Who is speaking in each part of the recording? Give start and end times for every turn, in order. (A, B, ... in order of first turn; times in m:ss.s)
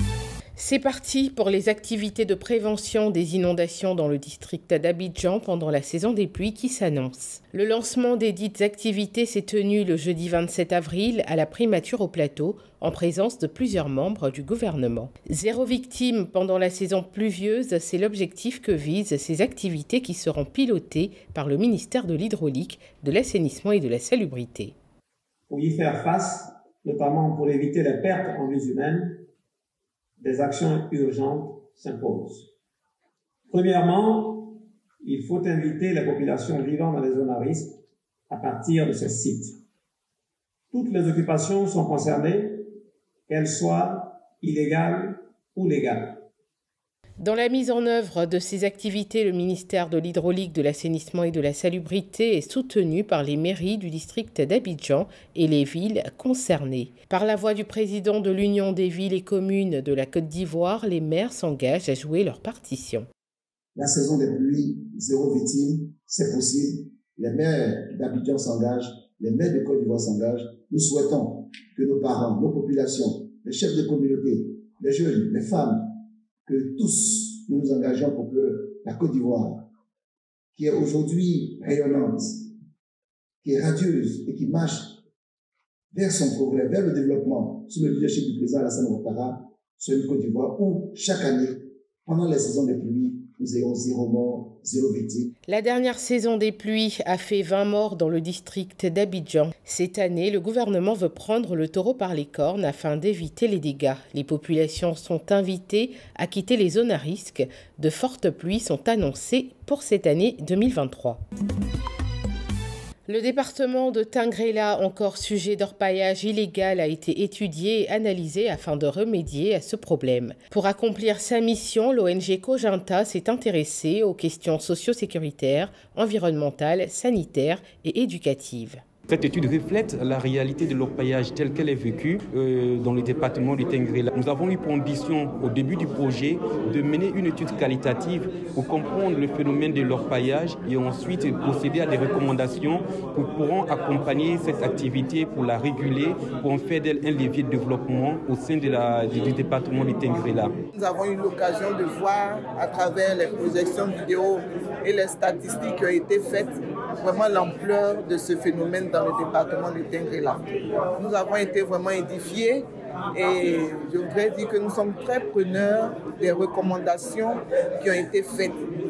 0:00.6-0:24.7 A
0:25.5-0:29.2 B
0:30.2-0:32.5 B
0:33.5-0:37.8 B
0:38.3-0:39.6 B
0:40.7-0:42.7 B
0:43.3-0:46.2 B
0:47.2-1:03.1 A
1:03.7-1:15.9 C
1:16.4-1:19.6 C
1:20.5-1:22.5 C
1:23.4-1:25.0 C
1:25.9-1:35.3 C
1:35.4-1:51.2 A
1:53.1-2:08.8 A
2:09.1-2:30.6 D
2:30.7-2:40.4 E
2:41.0-2:48.6 E